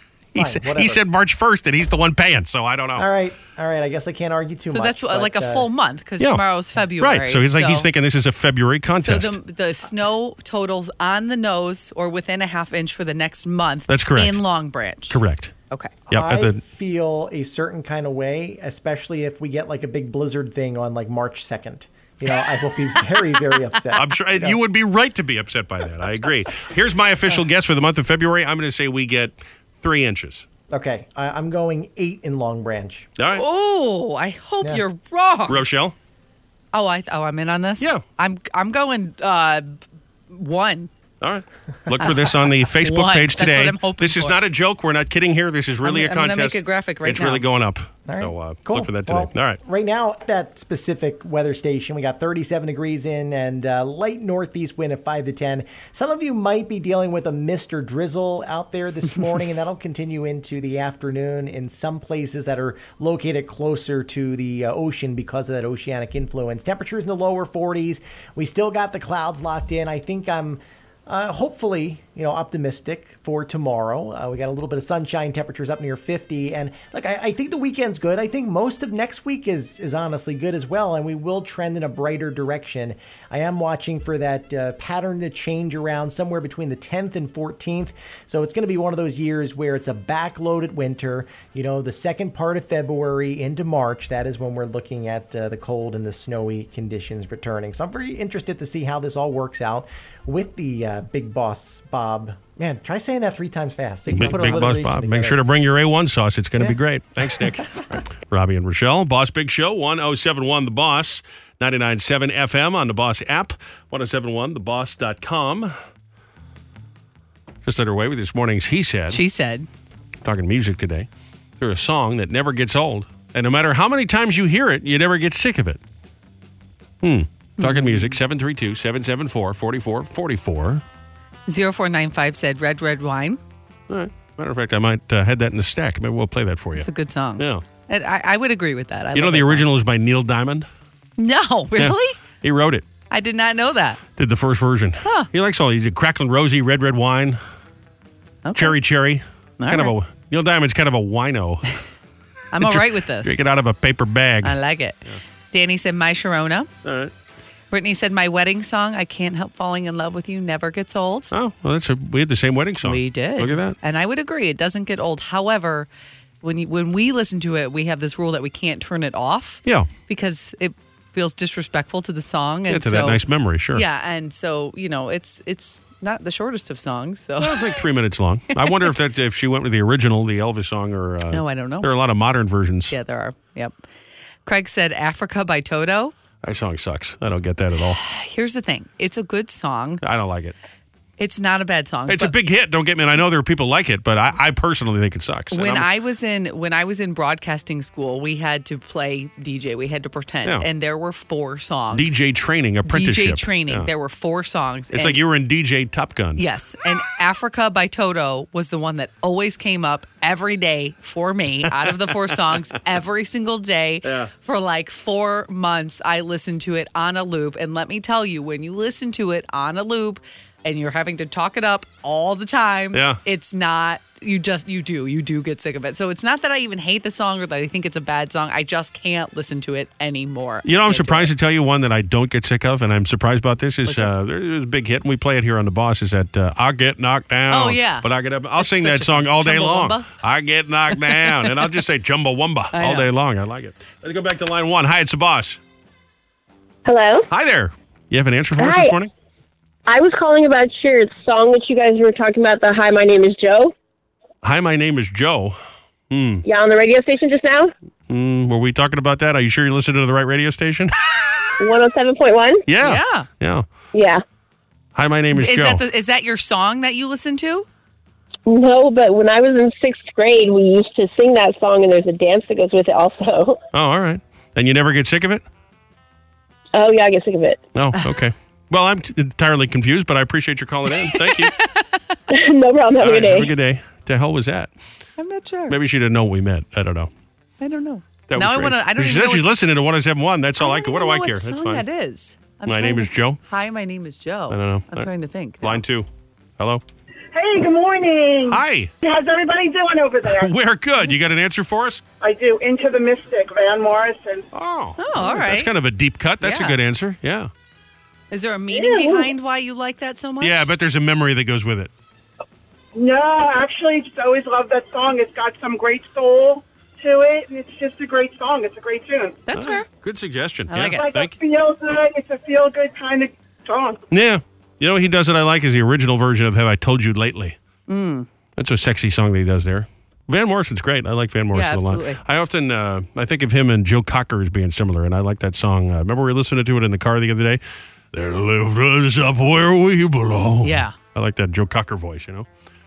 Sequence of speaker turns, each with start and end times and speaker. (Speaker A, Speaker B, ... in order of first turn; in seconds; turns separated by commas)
Speaker A: 0.3-1.0, Speaker B: 0.3-3.1, Speaker A: 3.0-5.7, Speaker C: 4.7-7.9, Speaker B: 7.0-9.4, Speaker C: 9.0-15.2, Speaker B: 13.9-14.4, Speaker B: 15.1-15.5, Speaker A: 16.1-24.6, Speaker B: 16.1-16.6, Speaker B: 23.9-30.5, Speaker A: 30.7-33.1, Speaker B: 33.2-33.4, Speaker C: 33.3-35.6, Speaker B: 35.5-36.0, Speaker C: 36.7-39.8, Speaker C: 40.3-40.9, Speaker B: 41.2-49.6, Speaker C: 42.0-44.4, Speaker C: 45.8-47.5, Speaker A: 48.1-105.4, Speaker B: 104.1-115.8, Speaker A: 106.6-107.6, Speaker B: 117.7-119.2, Speaker C: 119.1-119.7, Speaker B: 120.2-121.1, Speaker B: 121.6-125.8, Speaker B: 127.0-130.8, Speaker C: 127.6-128.2, Speaker C: 131.5-133.4, Speaker B: 133.9-136.9, Speaker C: 136.8-139.7, Speaker B: 137.4-137.6, Speaker B: 139.1-140.7, Speaker C: 141.2-142.2, Speaker B: 141.8-142.9, Speaker C: 143.1-144.0, Speaker B: 144.2-147.4, Speaker C: 145.0-145.3, Speaker C: 148.4-148.8, Speaker B: 148.6-151.7, Speaker C: 149.6-149.9, Speaker C: 152.5-153.4, Speaker B: 152.6-154.6, Speaker C: 154.4-156.7, Speaker B: 156.8-157.1, Speaker C: 157.7-161.3, Speaker B: 161.3-163.8, Speaker C: 162.8-165.9, Speaker C: 166.4-173.2, Speaker B: 172.7-173.8, Speaker C: 173.7-177.8, Speaker B: 177.4-183.0, Speaker C: 178.6-178.9, Speaker C: 181.3-181.9, Speaker C: 182.9-183.7, Speaker C: 184.5-186.1, Speaker B: 186.4-188.0, Speaker C: 187.9-190.0, Speaker B: 190.0-190.6, Speaker C: 191.2-192.3, Speaker B: 192.1-195.9, Speaker C: 195.5-202.2, Speaker B: 201.9-203.9, Speaker C: 202.8-205.2, Speaker B: 204.9-206.4, Speaker C: 206.4-231.3, Speaker B: 214.0-214.3, Speaker B: 222.9-223.2, Speaker B: 230.7-245.6, Speaker C: 233.9-234.2, Speaker C: 237.5-240.1, Speaker C: 240.9-241.7, Speaker C: 242.7-243.1, Speaker D: 246.9-247.3, Speaker B: 247.3-249.1, Speaker D: 248.6-249.0, Speaker D: 249.9-253.7, Speaker B: 254.4-255.6, Speaker B: 256.1-256.4, Speaker D: 256.4-257.7, Speaker B: 258.1-260.9, Speaker D: 261.6-262.6, Speaker B: 262.7-263.7, Speaker C: 262.8-263.3, Speaker D: 263.9-264.2, Speaker B: 264.9-265.8, Speaker C: 265.4-267.7, Speaker D: 268.5-273.6, Speaker B: 273.7-275.4, Speaker D: 276.8-277.6, Speaker B: 277.8-281.5, Speaker C: 281.0-281.8, Speaker D: 282.3-283.5, Speaker B: 283.0-284.7, Speaker C: 285.2-285.8, Speaker B: 285.7-287.1, Speaker C: 287.6-289.5, Speaker B: 288.3-291.8, Speaker C: 290.6-295.8, Speaker B: 292.7-293.4, Speaker B: 294.5-295.1, Speaker B: 295.6-296.1, Speaker E: 297.3-300.5, Speaker B: 298.5-298.9, Speaker B: 300.3-302.0, Speaker E: 302.2-304.4, Speaker B: 304.5-307.5, Speaker C: 305.0-305.7, Speaker C: 306.4-306.8, Speaker C: 308.3-310.7, Speaker E: 308.7-309.3, Speaker B: 310.4-311.9, Speaker E: 312.9-319.4, Speaker C: 319.5-319.9, Speaker B: 319.5-321.4, Speaker C: 320.7-321.1, Speaker E: 320.9-324.0, Speaker B: 324.1-327.6, Speaker C: 327.9-328.3, Speaker B: 328.6-337.6, Speaker C: 331.5-332.2, Speaker B: 338.1-342.5, Speaker C: 340.6-341.0